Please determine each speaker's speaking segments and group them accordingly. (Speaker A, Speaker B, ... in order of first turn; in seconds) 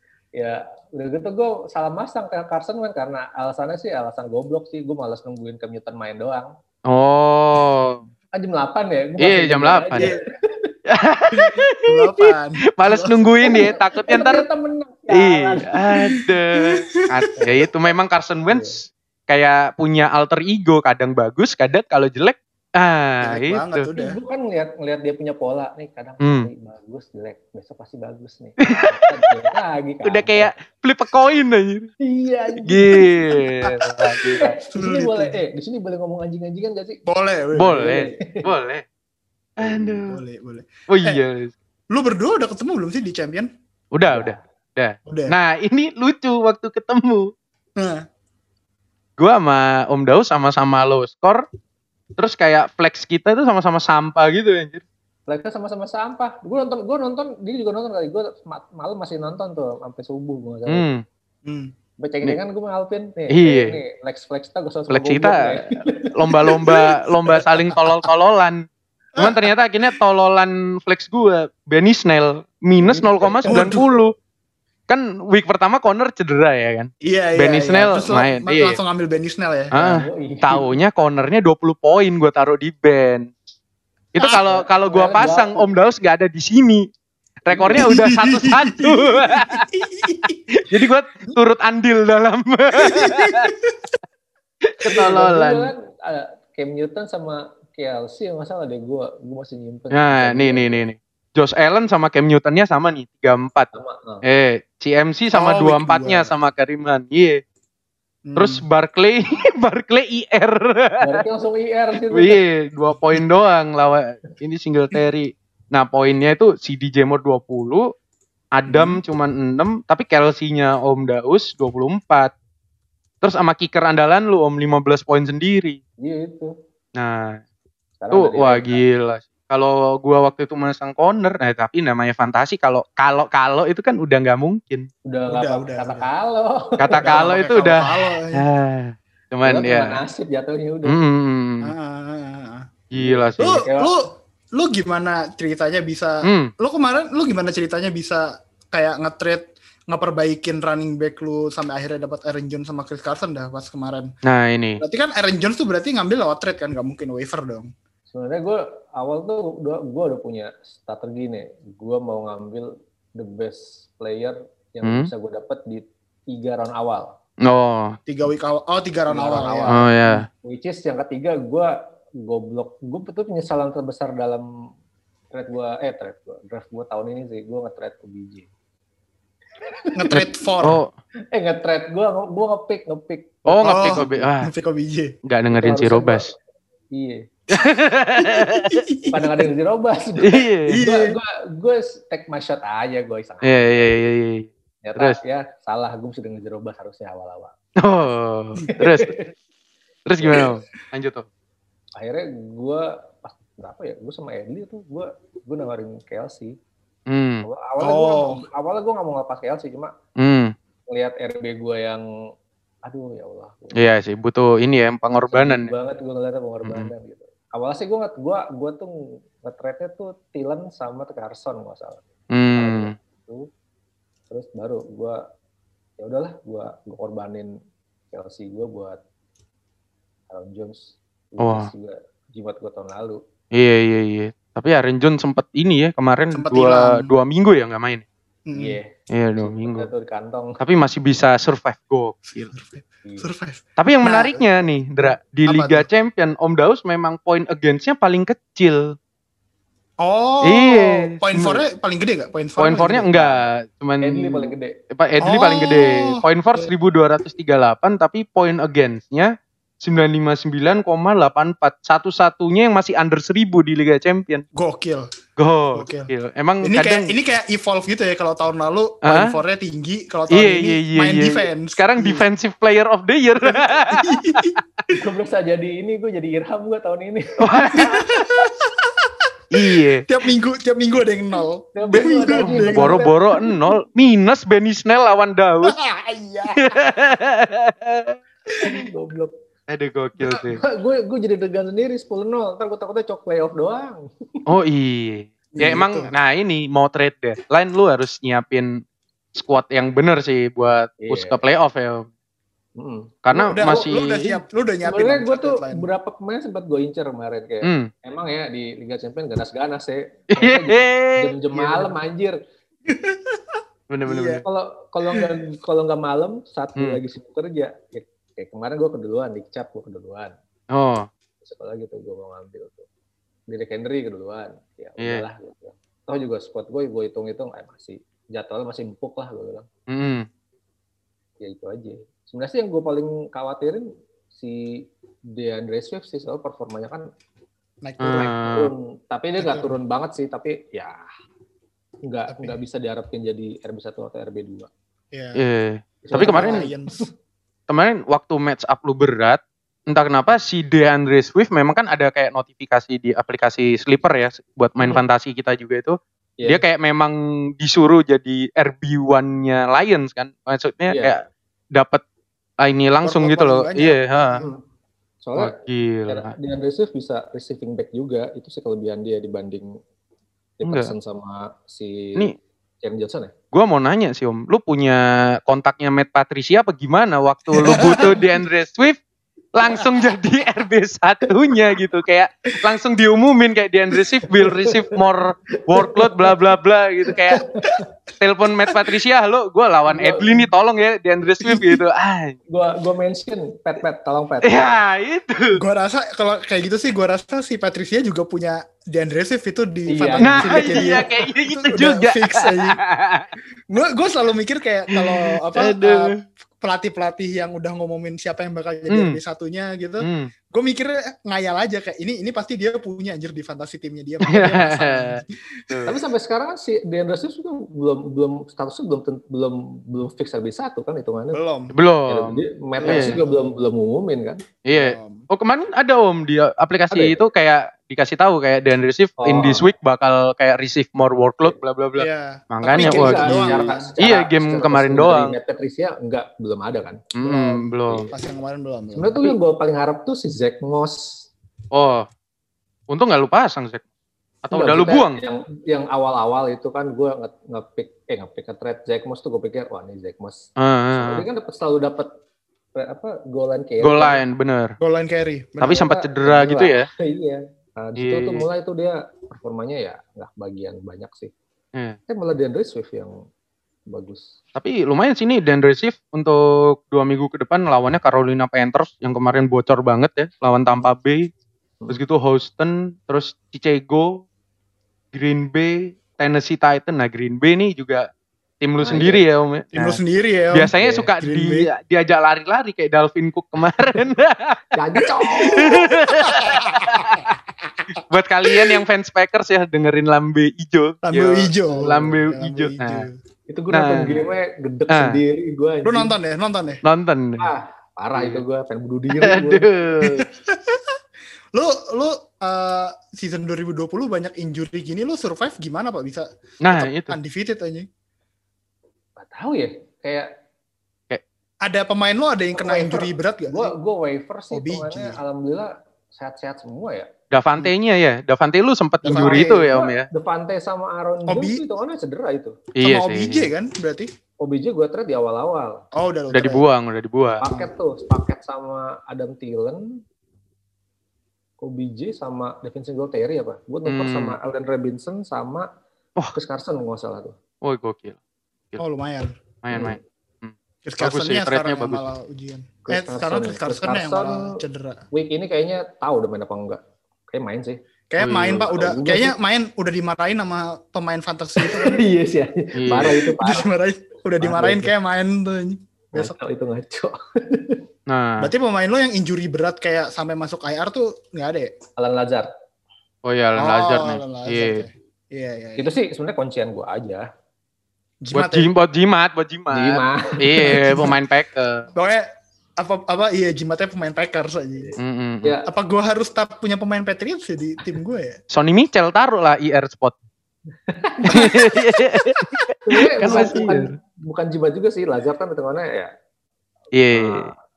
Speaker A: 0.3-6.5, 8.3-10.7, 13.4-15.8, 17.4-17.7, 18.5-18.8, 23.9-30.5, 32.0-33.1, 34.4-37.0, 37.7-38.5, 44.1-44.4, 55.3-60.9, 62.0-66.8, 72.8-74.0, 79.7-80.8, 84.2-85.7, 87.5-88.0, 94.8-100.8, 103.7-104.2, 111.0-112.4, 126.0-126.5, 128.0-128.8, 135.1-137.3, 139.4-141.0, 142.9-143.9, 158.1-167.2, 169.1-171.7, 172.2-174.5, 175.3-178.5, 179.6-180.2, 181.3-184.3, 185.5-186.3, 186.9-187.3, 189.1-194.0, 194.8-197.5, 198.8-199.3, 200.2-200.5, 202.0-206.5, 207.4-209.9, 210.9-212.0, 212.8-213.9, 215.3-223.5, 224.3-225.2, 226.0-227.6, 228.1-229.0, 230.3-233.2, 238.6-240.6, 254.0-254.8, 274.9-277.9, 281.8-283.4, 288.6-289.3, 290.2-294.4, 301.0-301.4, 302.8-303.9, 304.9-312.4, 314.4-320.3, 321.4-322.9, 323.5-329.7, 331.4-334.8, 335.4-337.1, 338.1-341.0, 342.1-344.7, 346.0-347.1, 364.3-364.6, 365.2-365.5, 366.1-369.8, 370.6-372.3, 372.8-373.3, 377.6-378.2, 379.7-380.1, 381.3-381.7, 383.9-385.0, 385.7-386.4, 387.1-387.9, 389.9-390.5, 392.5-394.7, 399.9-401.1, 415.9-421.4, 422.1-424.4, 426.9-427.2, 429.2-429.7, 432.8-437.2, 439.0-441.3, 444.5-452.1, 452.8-454.2, 455.6-461.3, 462.1-463.2, 463.9-464.4, 478.8-479.2, 480.8-481.1, 484.7-485.8, 493.5-496.1, 497.4-499.7, 509.2-510.3, 512.6-517.1, 519.1-522.6, 524.4-525.9, 527.4-530.0, 531.6-535.7, 536.4-537.3, 539.7-540.0, 542.9-544.6, 545.1-547.8, 548.6-549.4, 551.6-553.7, 554.4-554.9, 556.1-557.8, 562.0-562.5, 565.8-567.2, 569.7-571.1, 574.8-575.7, 580.9-581.5, 582.9-586.1, 587.1-587.5
Speaker B: 6.9-8.0, 9.2-10.1, 10.9-14.5, 15.1-23.9, 26.2-26.5, 28.6-31.9, 32.6-34.5, 37.5-38.9, 39.6-40.2, 40.9-41.5, 43.9-47.3, 49.2-51.5, 52.2-54.8, 60.7-61.0, 63.3-63.8, 64.9-74.1, 74.9-78.8, 79.7-83.3, 84.1-86.9, 87.5-89.6, 90.7-93.5, 94.6-95.7, 99.9-103.7, 104.2-107.4, 108.4-111.2, 112.1-117.9, 118.5-122.3, 123.2-125.8, 127.0-127.4, 128.1-134.9, 136.8-140.0, 140.8-141.7, 142.9-143.6, 146.2-146.5, 154.2-154.8, 164.8-165.1, 167.4-168.0, 169.7-170.3, 180.1-180.9, 183.5-184.5, 185.2-186.3, 187.5-188.8, 190.2-190.8, 193.4-195.2, 197.8-199.1, 200.1-201.3, 207.1-207.5, 210.2-210.5, 213.7-215.7, 216.6-216.9, 222.3-222.9, 231.4-231.7, 233.5-238.1, 239.1-239.9, 240.6-242.5, 243.8-249.0, 250.4-251.6, 252.6-264.4, 265.4-267.1, 269.0-269.4, 270.3-274.6, 277.4-278.5, 279.5-280.0, 281.9-285.8, 286.6-288.2, 289.7-290.6, 294.5-298.8, 299.4-302.1, 303.2-304.4, 307.6-307.9, 310.3-311.3, 313.9-314.4, 320.7-321.1, 325.0-325.2, 329.9-330.3, 338.0-338.7, 345.4-346.7, 347.7-362.0, 362.6-364.4, 365.4-366.3, 370.6-370.9, 373.5-379.0, 379.5-387.4, 388.2-392.4, 394.4-395.6, 400.2-403.3, 404.9-406.2, 408.9-409.2, 410.0-410.3, 414.2-416.0, 421.7-423.2, 424.6-435.4, 437.1-438.1, 441.7-442.1, 442.9-443.8, 444.4-445.2, 450.6-451.3, 453.8-454.8, 455.6-456.9, 458.0-458.5, 464.6-471.3, 471.9-474.2, 475.1-478.1, 478.6-480.0, 480.5-484.6, 485.4-487.3, 488.1-493.1, 493.7-494.3, 494.9-495.2, 496.8-497.5, 498.1-498.4, 499.1-500.3, 506.6-507.2, 517.3-520.1, 522.8-523.5, 526.3-527.4, 533.9-534.4, 537.6-538.2, 539.6-542.0, 548.2-548.7, 552.8-553.3, 558.1-558.5, 563.2-564.9, 568.3-571.9, 575.0-575.6, 578.5-580.1, 581.3-584.0, 586.9-587.5
Speaker C: 11.3-13.3, 16.1-17.1, 23.2-24.2, 34.7-35.4, 37.1-37.9, 39.7-41.2, 41.9-43.5, 45.1-45.4, 47.8-48.0, 61.5-61.7, 69.2-69.5, 73.5-73.9, 77.0-79.8, 87.8-90.6, 92.8-93.8, 105.3-106.3, 108.3-108.6, 118.7-119.0, 135.3-136.1, 136.9-138.4, 141.6-142.7, 143.4-154.1, 154.8-157.7, 168.1-170.2, 179.9-180.8, 183.7-185.2, 188.2-189.2, 190.7-191.2, 207.8-208.4, 236.3-237.1, 238.5-238.8, 242.3-245.9, 250.0-253.2, 255.2-256.7, 264.6-265.1, 265.7-266.1, 266.6-272.2, 273.4-274.6, 277.7-278.9, 279.7-283.4, 285.6-286.7, 295.5-296.1, 303.5-305.9, 311.5-311.9, 312.9-313.4, 314.1-314.4, 337.8-338.4, 339.4-339.8, 342.3-342.6, 345.1-345.4, 346.1-347.1, 363.0-364.3, 377.6-378.2, 395.6-402.8, 403.7-415.4, 421.3-421.8, 422.8-423.5, 424.7-425.3, 432.0-433.9, 437.2-439.4, 454.8-455.9, 479.7-481.7, 485.4-487.3, 491.0-493.1, 495.9-496.8, 500.0-500.8, 501.5-507.9, 511.6-513.7, 514.5-515.2, 519.0-519.7, 521.3-521.6, 522.8-524.1, 526.0-526.7, 527.4-527.7, 538.8-539.4, 540.8-545.0, 548.1-552.0, 553.0-556.3, 558.4-561.7, 563.6-565.9, 568.2-568.7, 570.6-571.1, 572.0-574.9, 575.7-578.4, 581.3-581.6